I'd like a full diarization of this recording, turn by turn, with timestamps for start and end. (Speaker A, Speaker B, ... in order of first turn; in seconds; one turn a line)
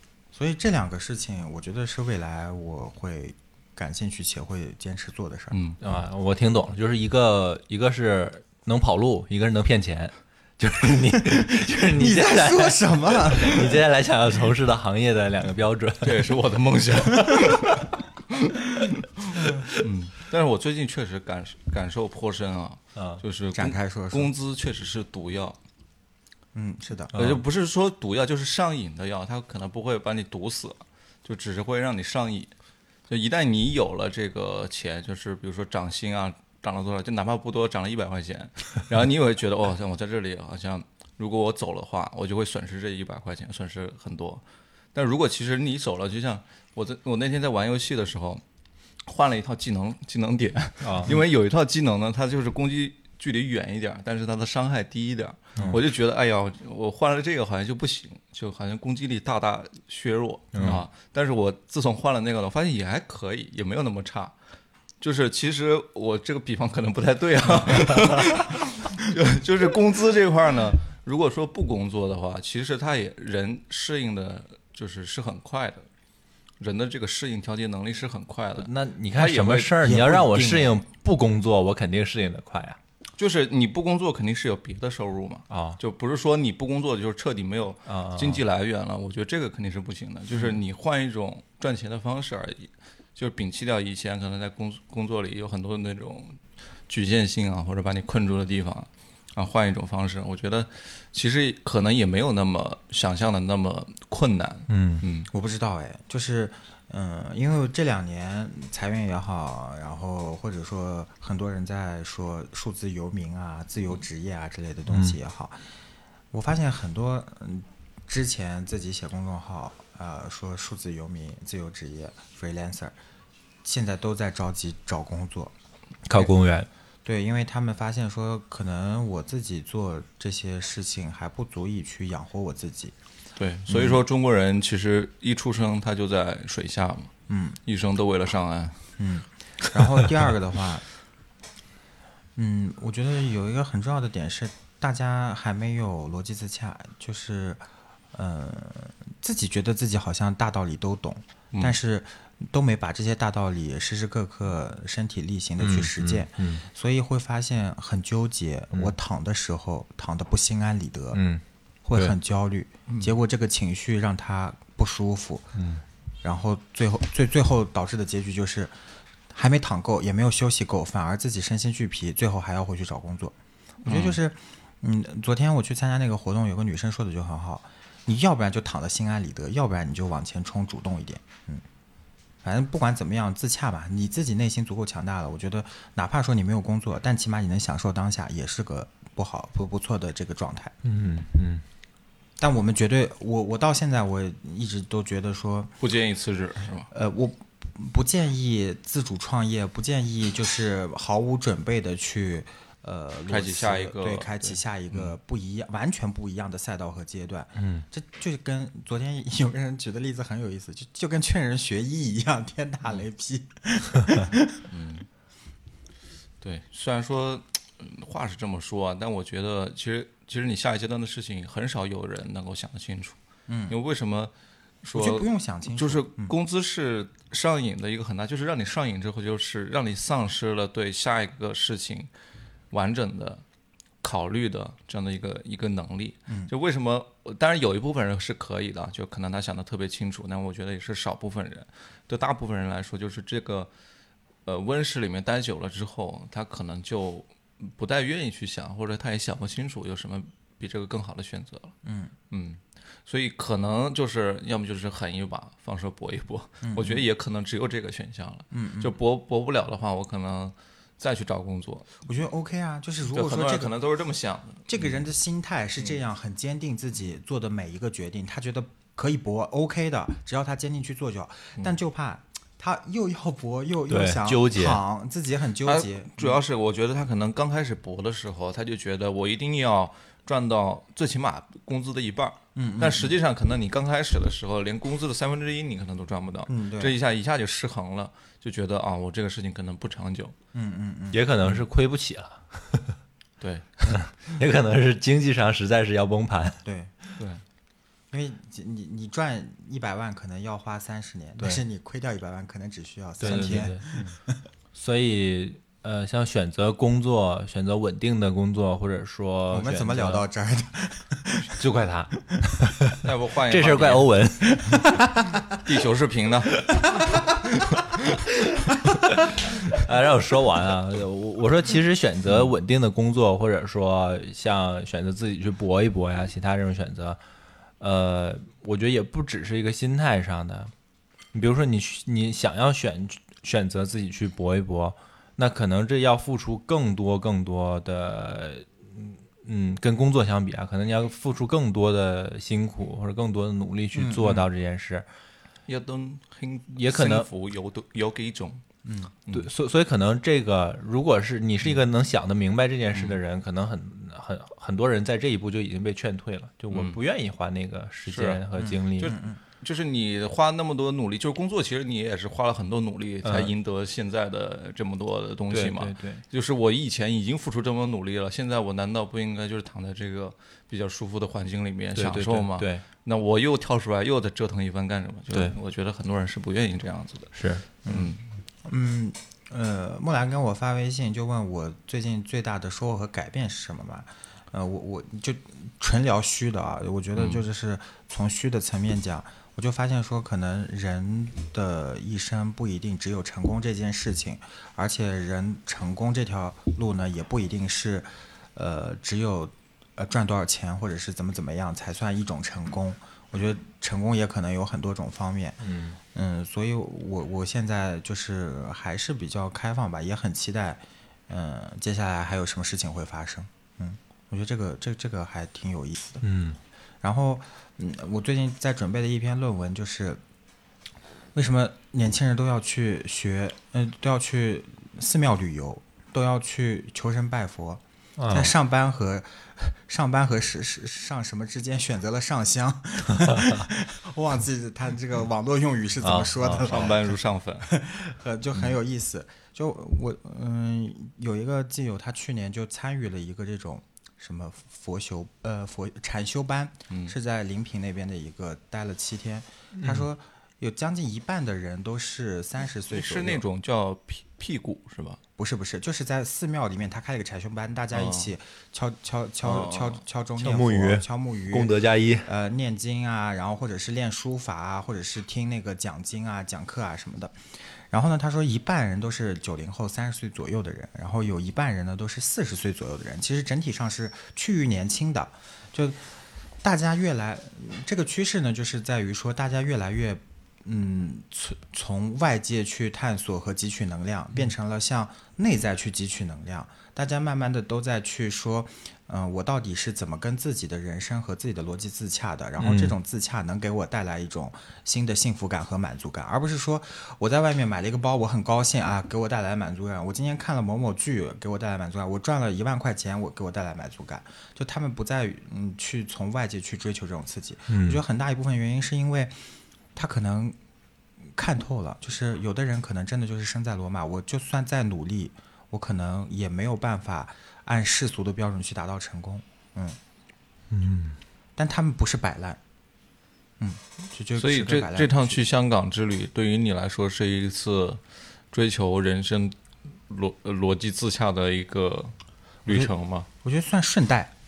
Speaker A: 0.3-5.6
Speaker B: 5.5-5.8
Speaker C: 5.8-16.3
Speaker A: 11.9-13.6
Speaker B: 16.0-25.6
Speaker C: 23.0-23.2
Speaker A: 23.5-24.3
Speaker A: 26.5-27.1
Speaker C: 27.1-27.4
Speaker B: 27.1-32.5
Speaker B: 33.1-44.4
Speaker B: 44.9-48.4
Speaker B: 49.1-64.3
Speaker C: 50.8-51.2
Speaker C: 60.5-60.9
Speaker B: 65.0-75.9
Speaker B: 76.6-79.8
Speaker C: 78.6-82.8
Speaker A: 79.8-80.8
Speaker B: 83.2-105.3
Speaker C: 85.5-85.8
Speaker C: 87.9-88.4
Speaker C: 104.7-105.0
Speaker A: 105.3-115.6
Speaker C: 114.9-115.2
Speaker A: 116.3-123.0
Speaker A: 123.6-125.5
Speaker C: 126.1-126.7
Speaker A: 127.0-132.9
Speaker B: 133.4-137.1
Speaker A: 133.7-134.0
Speaker A: 137.3-137.6
Speaker B: 137.7-138.8
Speaker A: 139.0-140.8
Speaker A: 142.4-161.2
Speaker C: 155.6-156.7
Speaker C: 161.1-161.4
Speaker A: 161.8-165.6
Speaker C: 165.6-165.8
Speaker A: 166.2-168.8
Speaker A: 169.3-181.6
Speaker B: 173.8-174.2
Speaker A: 182.4-190.7
Speaker C: 190.8-191.6
Speaker A: 192.4-195.7
Speaker B: 195.8-196.9
Speaker A: 196.9-214.6
Speaker B: 203.3-205.2
Speaker C: 207.6-207.8
Speaker B: 214.7-215.1
Speaker B: 216.4-223.2
Speaker A: 223.5-223.8
Speaker B: 223.7-224.3
Speaker B: 224.8-232.1
Speaker A: 224.9-226.3
Speaker B: 232.7-233.4
Speaker B: 234.0-243.7
Speaker B: 244.4-251.8
Speaker A: 251.8-252.1
Speaker B: 252.3-261.9
Speaker A: 256.6-257.1
Speaker A: 258.5-259.0
Speaker A: 262.1-263.7
Speaker B: 263.1-264.8
Speaker A: 264.7-276.4
Speaker C: 273.9-274.8
Speaker B: 275.6-290.4
Speaker A: 282.6-283.2
Speaker A: 286.5-287.0
Speaker A: 290.5-291.2
Speaker C: 291.1-293.0
Speaker B: 293.4-293.8
Speaker C: 293.9-296.6
Speaker A: 296.6-296.9
Speaker A: 298.1-304.4
Speaker C: 303.2-303.9
Speaker C: 304.7-310.2
Speaker A: 309.5-311.6
Speaker C: 311.6-314.9
Speaker B: 313.0-314.1
Speaker A: 314.7-315.4
Speaker B: 315.6-316.8
Speaker B: 317.4-318.2
Speaker C: 319.2-327.2
Speaker C: 327.8-330.7
Speaker C: 331.3-345.1
Speaker A: 343.9-344.4
Speaker B: 345.7-348.6
Speaker C: 346.7-347.3
Speaker A: 348.9-349.1
Speaker C: 349.3-359.1
Speaker B: 352.9-353.2
Speaker B: 356.7-357.0
Speaker B: 358.1-378.2
Speaker A: 359.0-359.4
Speaker C: 363.2-363.5
Speaker C: 365.5-366.2
Speaker C: 372.0-372.8
Speaker C: 377.4-377.6
Speaker A: 377.9-378.1
Speaker A: 378.6-416.2
Speaker B: 387.2-387.4
Speaker C: 405.6-406.0
Speaker C: 416.2-416.6
Speaker A: 417.0-420.2
Speaker A: 421.4-453.4
Speaker C: 428.2-428.5
Speaker C: 436.0-436.8
Speaker B: 436.6-437.7
Speaker B: 446.9-447.1
Speaker C: 449.8-450.1
Speaker B: 452.9-455.2
Speaker A: 455.4-461.7
Speaker B: 457.9-458.3
Speaker B: 459.4-460.0
Speaker C: 460.4-462.3
Speaker A: 462.2-476.1
Speaker A: 476.6-510.6
Speaker C: 492.6-492.9
Speaker C: 507.7-508.0
Speaker A: 511.2-520.0
Speaker C: 520.7-521.2
Speaker A: 521.6-522.6
Speaker A: 523.6-525.4
Speaker B: 524.4-528.0
Speaker B: 528.5-529.6
Speaker B: 530.1-532.1
Speaker B: 532.6-533.3
Speaker A: 533.4-534.3